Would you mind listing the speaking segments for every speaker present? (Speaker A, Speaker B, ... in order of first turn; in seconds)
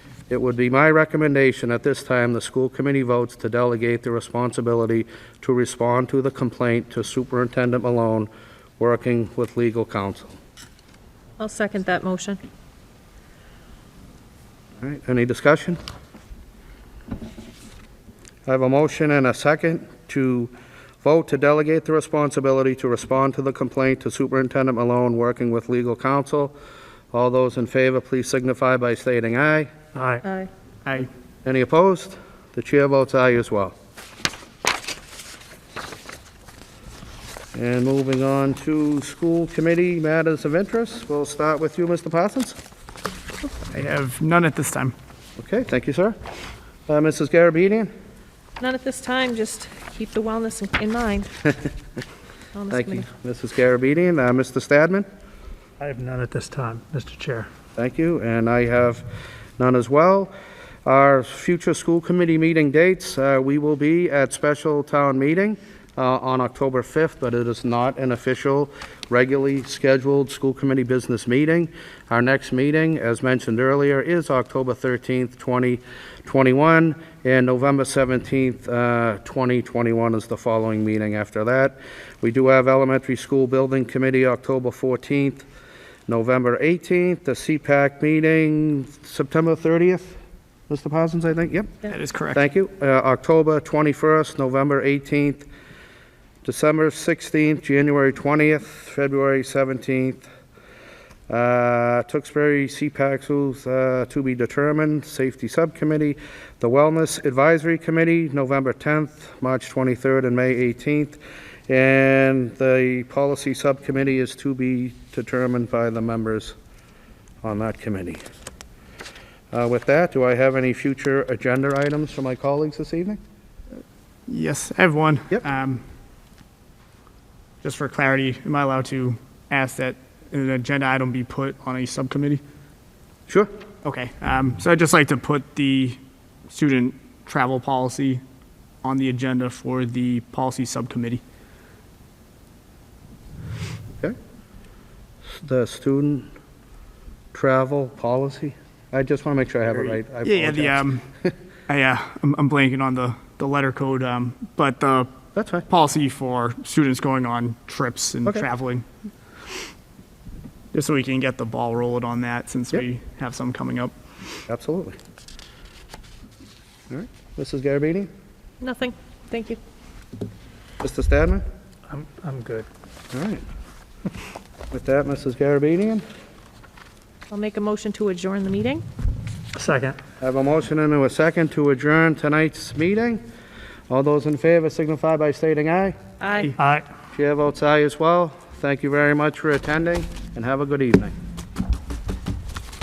Speaker A: 0.3-10.3, 14.8-15.8, 18.4-20.5, 21.0-26.5, 27.1-29.7, 31.4-33.7, 37.5-42.6, 45.4-46.1, 46.9-47.9, 52.7-55.0, 57.8-59.0, 59.6-60.3, 60.8-85.4, 86.1-90.2, 90.7-91.8, 92.3-95.5, 96.4-100.2, 101.3-111.2, 111.7-116.5, 117.4-118.2, 119.5-123.2, 145.4-146.3, 147.3-151.3, 155.3-155.7, 164.5-165.0, 166.9-168.1, 170.8-171.4, 173.1-173.4, 174.7-176.0, 180.2-183.2, 183.9-186.0, 187.1-191.1
Speaker B: 11.4-12.4, 48.6-51.3, 52.5-53.0, 168.6-169.6, 177.3-178.8, 186.2-186.5
Speaker C: 29.9-30.2, 55.8-57.5, 171.9-172.7, 179.6-180.0, 186.6-186.8
Speaker D: 43.4-44.9, 91.8-92.4, 124.3-125.8, 127.6-132.4, 133.8-136.0, 136.5-138.2, 138.8-141.2, 150.2-151.0, 151.7-155.1, 155.7-158.8, 160.7-163.9